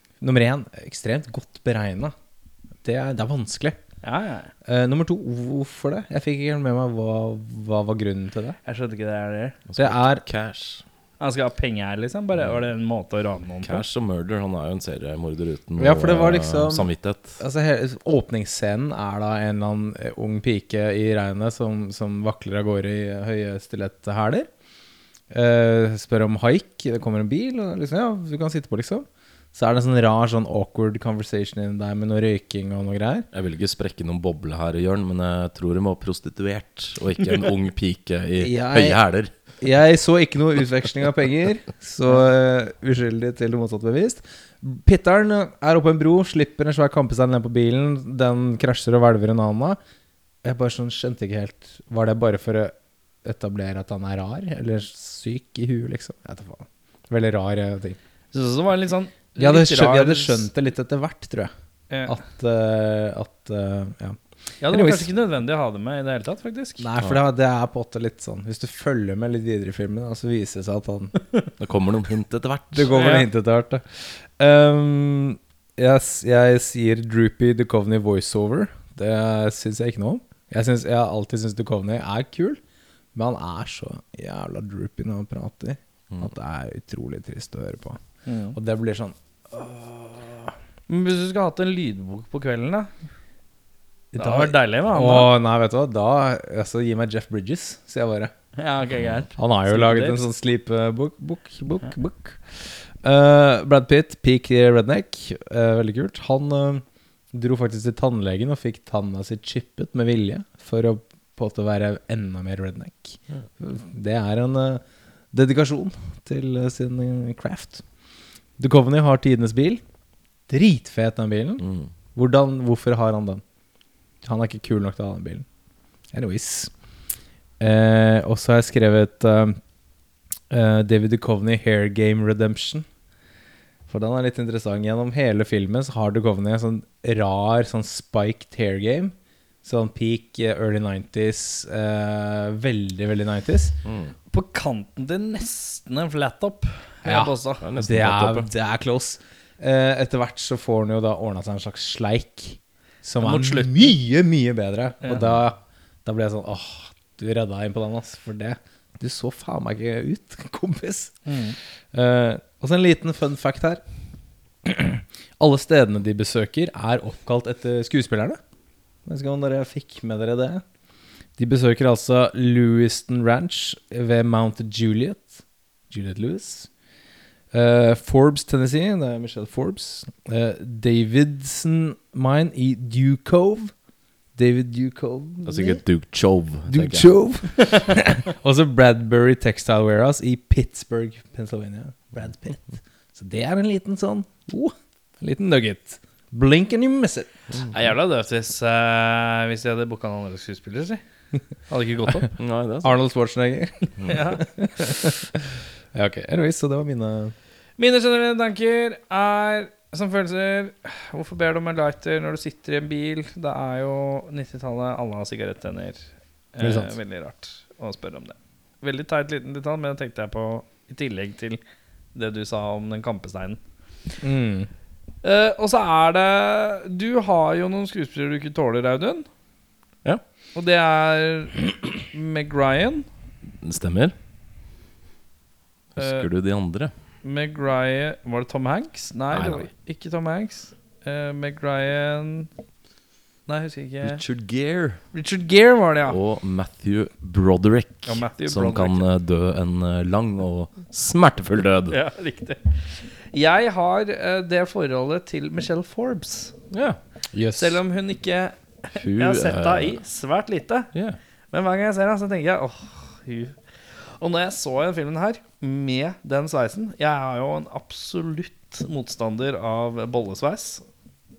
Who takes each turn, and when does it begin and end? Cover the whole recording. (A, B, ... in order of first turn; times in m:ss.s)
0:00.2-0:02.1 A
0:02.8-0:03.8 A
0:04.0-0:04.5 B
0:04.6-0:08.6 A
0:08.6-0:09.6 B
0:09.7-0:10.8 C
0:09.8-0:10.2 A
0:11.2-0:13.8 B
0:13.6-0:17.4 C
0:15.8-0:24.5 A
0:25.3-0:33.3 A
0:33.3-0:39.3 C
0:38.4-0:39.0 A
0:39.6-0:49.8 A
0:50.4-0:58.0 A
0:58.3-1:00.4 B
0:59.4-1:01.5 A
1:02.0-1:05.1 A
1:04.6-1:06.9 B
1:06.8-1:11.1 A
1:11.6-1:12.9 C
1:12.7-1:22.6 A
1:12.9-1:13.3 B
1:23.1-1:28.0 A
1:28.2-1:28.6 B
1:28.5-1:30.5 A
1:30.9-1:32.9 B
1:34.1-1:38.3 A
1:34.2-1:35.3 B
1:38.6-1:40.2 B
1:39.0-1:39.2 C
1:39.4-1:57.8 A
1:58.6-1:59.8 A
2:00.5-2:03.4 A
2:01.6-2:01.9 C
2:04.2-2:05.4 A
2:06.1-2:06.7 A
2:07.6-2:09.6 A
2:10.5-2:12.9 A
2:13.9-2:23.8 A
2:23.8-2:24.2 C
2:24.3-2:27.6 B
2:27.0-2:43.8 A
2:27.6-2:28.5 C
2:33.2-2:33.9 B
2:41.2-2:41.6 B
2:44.6-2:48.4 A
2:49.0-2:50.6 A
2:51.4-2:56.7 A
2:57.5-3:03.7 A
3:04.4-3:05.8 A
3:05.4-3:07.1 C
3:06.7-3:17.4 A
3:07.6-3:07.9 B
3:17.7-3:21.0 B
3:21.7-3:22.3 B
3:22.4-3:23.0 C
3:22.8-3:25.3 A
3:24.0-3:24.4 B
3:25.9-3:27.3 A
3:27.8-3:41.6 B
3:36.6-3:37.0 A
3:42.1-3:43.6 B
3:44.2-3:44.7 A
3:45.2-3:49.3 B
3:50.5-3:53.1 B
3:53.6-3:54.1 C
3:55.9-3:56.9 C
3:56.0-3:56.2 B
3:57.2-4:02.5 B
3:59.3-3:59.7 C
4:03.5-4:04.2 B
4:04.0-4:05.0 C
4:05.1-4:06.2 B
4:06.1-4:12.0 C
4:08.0-4:09.0 B
4:11.9-4:16.6 B
4:16.7-4:17.0 C
4:17.3-4:17.8 A
4:17.6-4:20.9 B
4:18.9-4:20.0 C
4:20.9-4:21.2 C
4:21.5-4:30.8 B